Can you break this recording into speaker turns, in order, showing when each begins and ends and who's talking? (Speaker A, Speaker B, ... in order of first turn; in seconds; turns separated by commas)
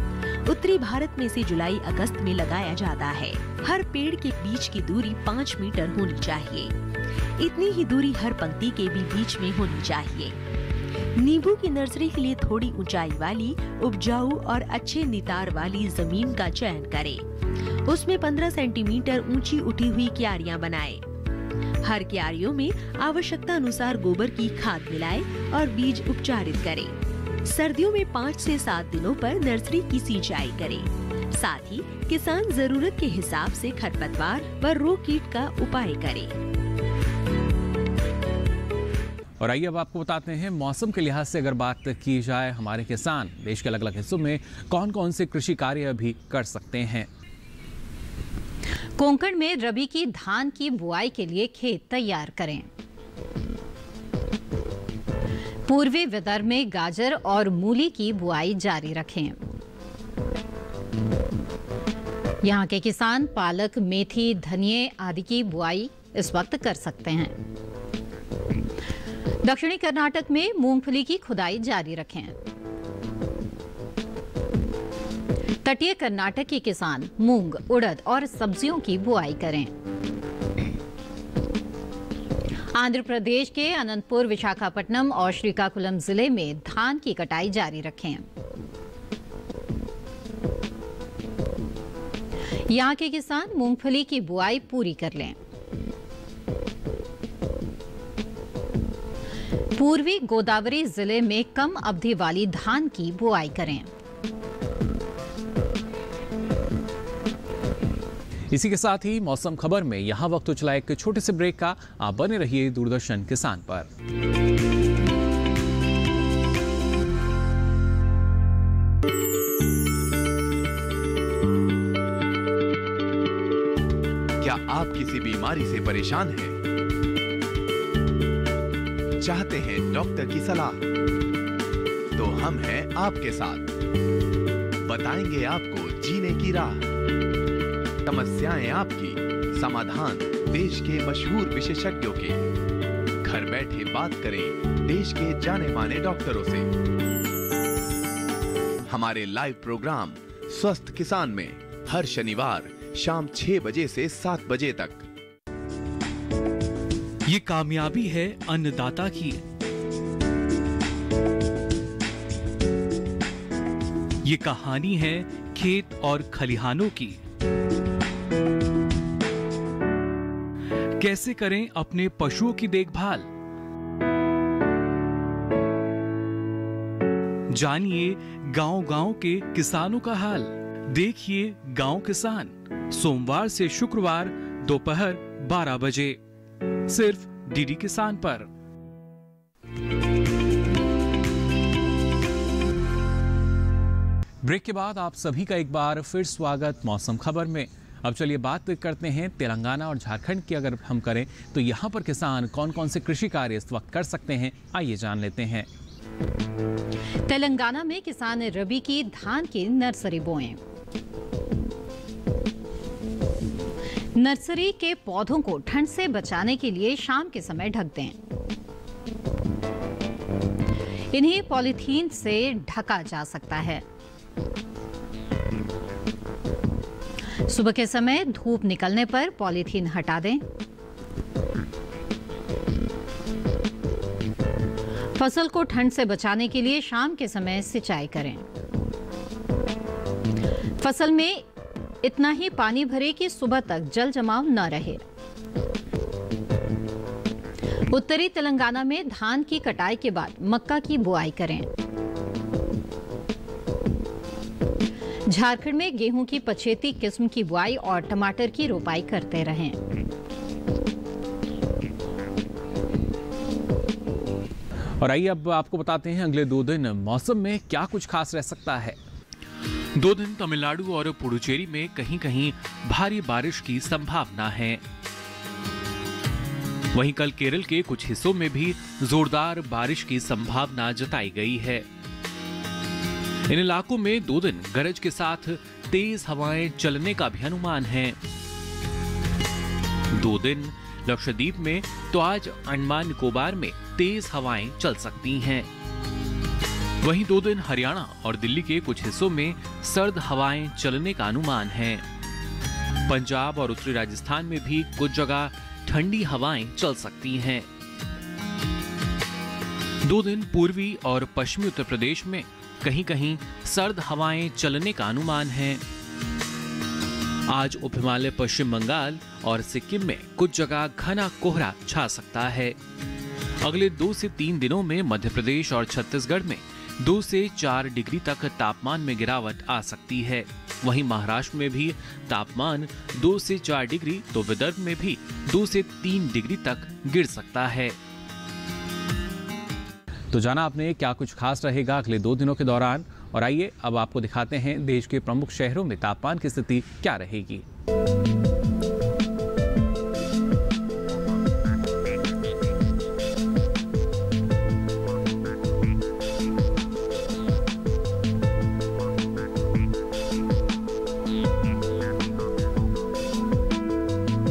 Speaker A: 0.5-6.7, Speaker A: 7.4-10.4, Speaker A: 11.2-17.2, Speaker A: 17.9-21.0, Speaker A: 21.8-36.4, Speaker B: 39.4-47.1, Speaker C: 49.0-52.7, Speaker C: 55.7-59.4, Speaker C: 62.4-67.4, Speaker C: 69.4-72.3, Speaker C: 75.6-79.7, Speaker C: 82.7-88.3, Speaker C: 92.7-95.4, Speaker C: 99.8-103.9, Speaker B: 108.5-113.9, Speaker D: 124.4-126.6, Speaker D: 129.2-130.8, Speaker D: 132.2-133.7, Speaker D: 134.8-136.8, Speaker D: 138.1-142.4, Speaker D: 143.2-146.7, Speaker D: 148.9-155.0, Speaker E: 157.3-159.4, Speaker B: 157.9-158.3, Speaker E: 164.2-167.1, Speaker E: 171.0-173.2, Speaker E: 177.6-186.2, Speaker E: 186.9-188.5, Speaker B: 194.4-205.7, Speaker C: 207.3-210.6, Speaker C: 214.2-218.2, Speaker C: 221.1-223.8, Speaker C: 227.5-230.4, Speaker C: 235.2-238.5, Speaker C: 240.8-241.5, Speaker C: 242.0-245.0, Speaker C: 247.9-251.7, Speaker C: 255.3-259.8, Speaker B: 265.0-269.0, Speaker E: 270.0-274.8, Speaker E: 276.9-281.9, Speaker E: 283.5-288.1, Speaker E: 290.1-295.7, Speaker E: 297.0-302.0, Speaker B: 297.3-297.5, Speaker E: 303.1-307.7, Speaker E: 310.1-315.8, Speaker E: 317.5-322.8, Speaker E: 323.6-338.0, Speaker B: 340.3-347.6